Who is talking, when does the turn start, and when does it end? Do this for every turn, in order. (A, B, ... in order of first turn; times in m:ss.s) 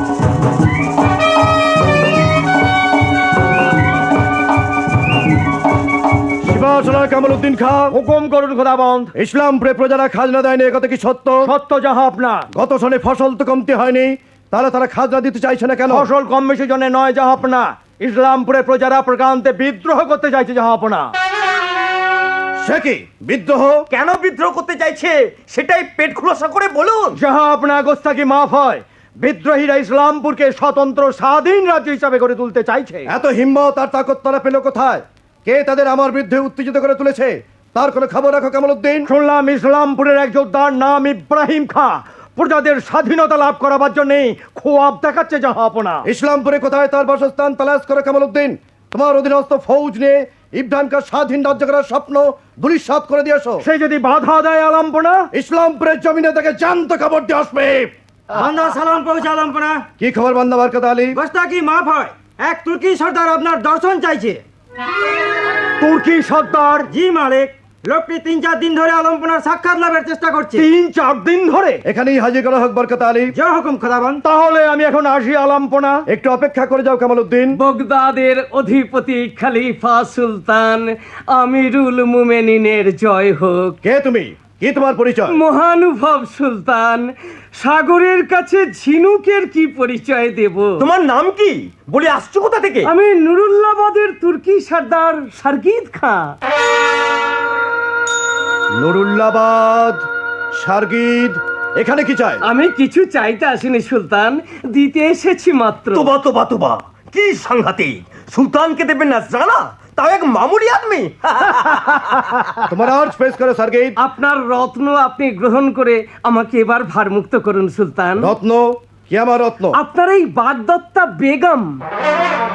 0:06.4-0:07.9 A
0:07.9-0:09.1 B
0:09.2-0:11.5 A
0:11.5-0:12.5 B
0:12.5-0:16.1 A
0:15.9-0:21.1 B
0:22.6-0:23.8 A
0:23.9-0:27.2 C
0:27.2-0:33.1 B
0:33.1-0:39.1 A
0:39.1-0:46.0 B
0:46.0-0:53.6 A
0:53.6-0:55.3 B
0:55.3-0:57.9 A
0:58.3-0:59.8 D
1:00.0-1:01.2 A
1:01.2-1:04.4 D
1:05.8-1:06.9 B
1:06.9-1:10.7 D
1:10.6-1:11.8 B
1:11.9-1:13.3 A
1:13.3-1:14.2 D
1:14.2-1:16.0 B
1:16.1-1:17.6 A
1:17.6-1:23.8 E
1:23.8-1:25.3 A
1:25.3-1:30.9 E
1:30.8-1:32.9 C
1:32.9-1:36.3 E
1:38.8-1:40.0 A
1:40.6-1:42.4 A
1:42.4-1:46.1 E
1:45.9-1:52.2 C
1:52.7-1:53.9 A
1:54.0-1:58.3 E
1:58.2-1:59.8 A
1:59.8-2:01.8 E